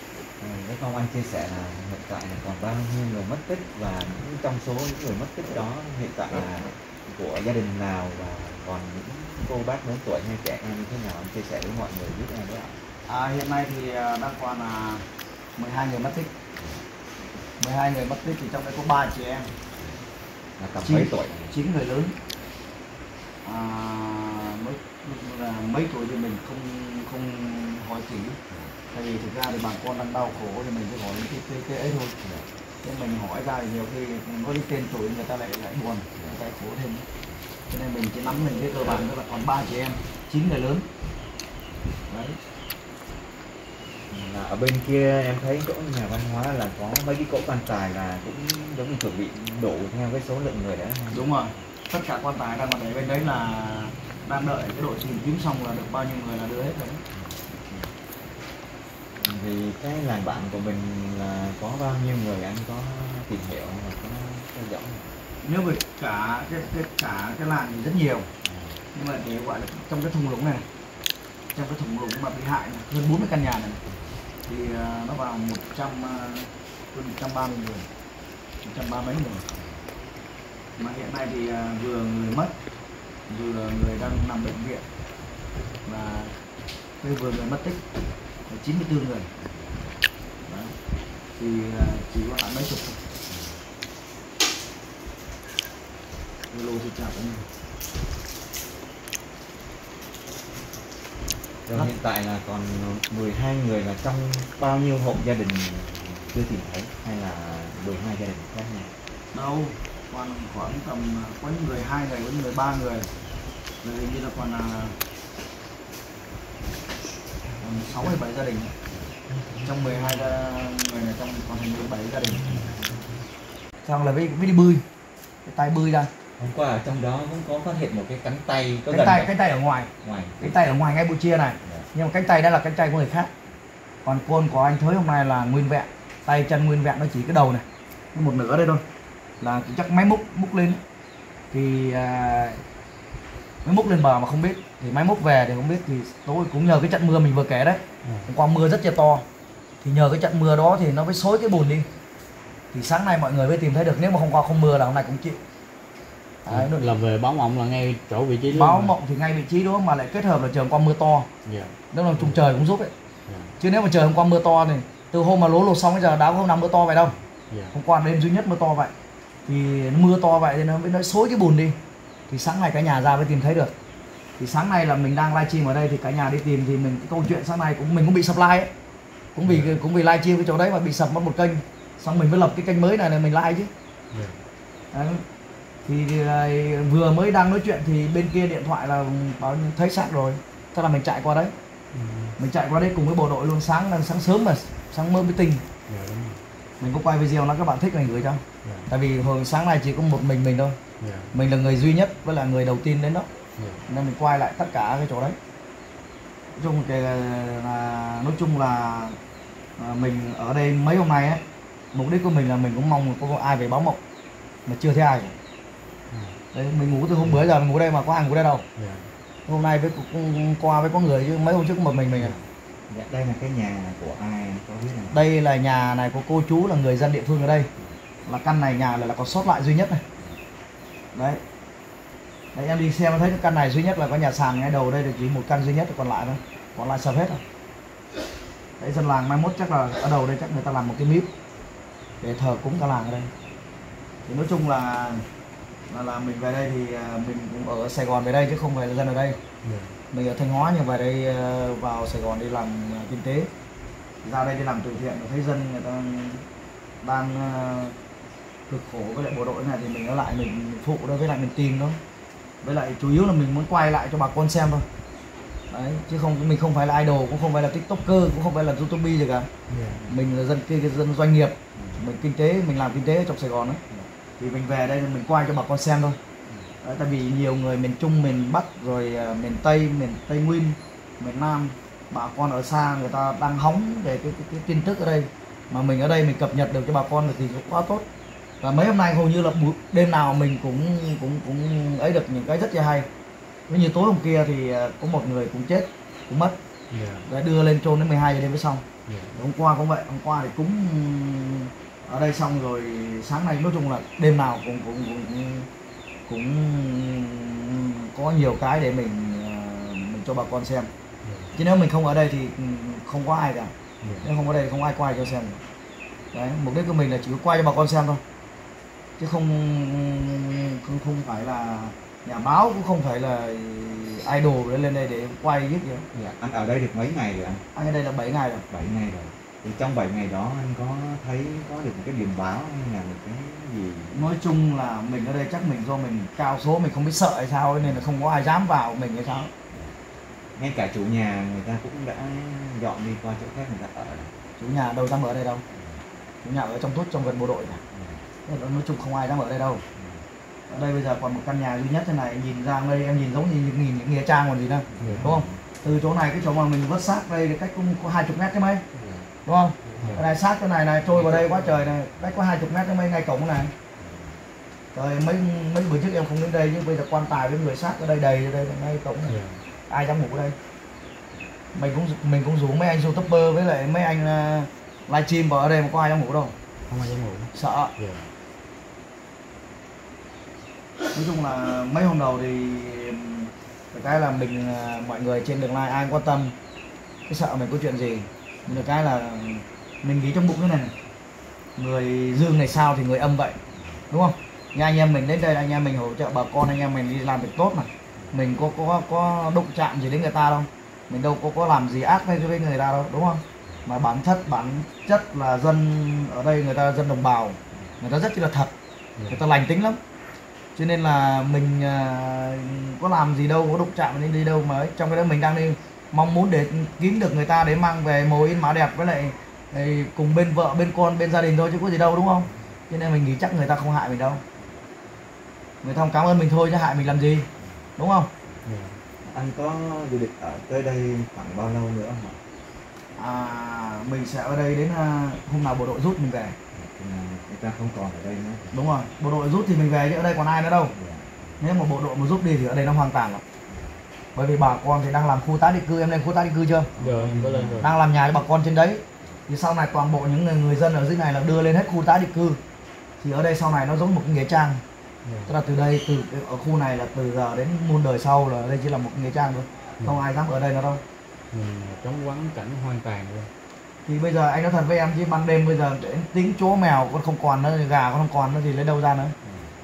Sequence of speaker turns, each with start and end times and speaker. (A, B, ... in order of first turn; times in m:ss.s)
0:00.4-0:12.8 A
0:13.0-0:15.0 B
0:15.6-0:16.3 B
0:16.6-0:16.8 A
0:17.6-0:19.5 B
0:20.6-0:21.5 A
0:20.8-0:22.1 B
0:23.4-0:28.4 B
0:28.9-0:32.2 B
0:32.2-0:32.5 A
0:32.8-0:37.0 B
0:36.1-0:36.4 A
0:37.7-0:40.8 B
0:38.8-0:39.0 A
0:42.1-0:42.4 B
0:44.1-0:51.2 A
0:51.1-0:57.0 B
0:57.1-0:57.9 A
0:59.1-1:05.1 A
1:05.4-1:08.3 B
1:08.4-1:08.8 A
1:08.9-1:10.6 B
1:11.5-1:13.8 B
1:14.5-1:17.8 B
1:18.6-1:19.4 B
1:19.5-1:19.8 A
1:20.8-1:22.5 B
1:23.3-1:24.8 B
1:25.8-1:26.3 B
1:27.0-1:27.8 B
1:28.5-1:29.3 B
1:29.4-1:29.9 A
1:30.4-1:30.7 B
1:31.4-1:33.0 B
1:33.3-1:33.6 A
1:36.5-1:37.4 B
1:41.6-1:48.9 A
1:49.3-1:53.1 B
1:53.8-1:55.0 B
1:57.6-1:58.7 B
1:58.9-1:59.7 A
1:59.6-2:02.4 B
2:02.3-2:03.1 A
2:03.8-2:04.8 B
2:05.4-2:06.1 B
2:06.4-2:09.3 A
2:08.9-2:09.9 B
2:10.0-2:10.6 A
2:10.4-2:13.3 B
2:14.0-2:18.8 B
2:19.4-2:20.8 B
2:21.5-2:22.6 B
2:23.6-2:29.2 B
2:28.0-2:28.3 C
2:29.8-2:31.9 B
2:32.7-2:35.4 B
2:36.4-2:36.9 B
2:36.5-2:38.9 C
2:38.5-2:41.3 B
2:41.4-2:42.4 C
2:41.9-2:42.9 B
2:43.3-2:43.6 C
2:43.6-2:47.1 B
2:47.5-2:47.7 C
2:47.7-2:48.9 B
2:49.4-2:51.8 B
2:52.3-2:53.7 B
2:54.4-2:58.7 B
2:59.3-3:03.7 B
2:59.4-2:59.8 C
3:04.1-3:04.4 C
3:04.9-3:05.2 B
3:05.8-3:11.5 B
3:11.9-3:12.4 C
3:12.4-3:15.6 B
3:15.9-3:16.4 C
3:16.8-3:20.8 B
3:18.6-3:18.9 C
3:21.0-3:21.3 C
3:21.3-3:23.3 B
3:23.6-3:23.8 C
3:23.9-3:25.4 B
3:26.6-3:29.2 B
3:29.8-3:31.4 B
3:31.9-3:34.0 B
3:34.6-3:35.3 B
3:36.1-3:36.4 C
3:36.5-3:38.6 B
3:38.8-3:39.1 C
3:39.5-3:42.4 B
3:42.9-3:45.2 A
3:45.1-3:47.7 B
3:48.2-3:50.0 B
3:51.1-3:51.4 B
3:52.5-3:57.4 B
3:58.8-4:01.3 B
4:02.2-4:03.3 B
4:04.3-4:05.2 B
4:05.9-4:09.4 B
4:09.6-4:10.0 C
4:10.1-4:13.5 B
4:14.2-4:16.4 B
4:17.0-4:17.9 B
4:18.7-4:22.0 B
4:22.6-4:24.8 B
4:25.7-4:29.5 B
4:29.7-4:30.0 C
4:30.1-4:33.8 B
4:31.8-4:32.0 A
4:34.4-4:36.2 B
4:36.8-4:48.0 B
4:48.6-4:53.1 B
4:53.7-4:56.6 B
4:56.9-4:57.3 C
4:57.3-4:58.8 B
4:59.1-4:59.4 C
4:59.4-5:05.7 B
5:06.3-5:10.9 B
5:11.2-5:11.5 C
5:11.5-5:15.6 B
5:14.0-5:14.3 C
5:16.3-5:18.2 B
5:19.2-5:26.0 B
5:26.1-5:27.6 A
5:27.7-5:28.6 B
5:28.7-5:34.2 A
5:34.1-5:39.5 B
5:40.6-5:44.3 A
5:44.6-5:45.6 B
5:45.7-5:46.0 A
5:46.4-5:47.8 B
5:47.9-5:48.2 A
5:48.4-5:49.8 B
5:49.9-5:50.2 A
5:50.7-5:58.8 B
5:54.9-5:55.7 A
5:55.0-5:55.3 C
5:58.9-5:59.3 A
5:59.4-6:03.7 B
5:59.8-6:00.3 A
6:01.1-6:01.7 A
6:04.0-6:04.4 A
6:04.9-6:09.4 B
6:09.2-6:09.6 C
6:09.9-6:10.5 B
6:11.7-6:16.5 B
6:16.9-6:18.3 C
6:17.5-6:17.9 B
6:21.1-6:26.5 B
6:27.3-6:30.9 B
6:31.8-6:33.6 B
6:33.8-6:34.0 A
6:34.1-6:48.7 B
6:49.2-6:49.4 C
6:49.3-6:50.0 B
6:50.7-7:04.4 B
7:05.8-7:08.3 B
7:08.6-7:09.0 C
7:09.2-7:12.4 A
7:13.2-7:16.6 B
7:16.7-7:18.8 A
7:18.7-7:20.9 B
7:20.9-7:21.5 A
7:21.6-7:23.4 B
7:23.7-7:24.0 A
7:24.3-7:26.9 B
7:27.0-7:27.9 A
7:27.0-7:27.9 C
7:27.8-7:32.6 B
7:33.2-7:34.8 B
7:35.2-7:35.6 C
7:35.5-7:41.0 B
7:41.5-7:43.5 C
7:44.0-7:49.3 B
7:49.4-7:49.7 A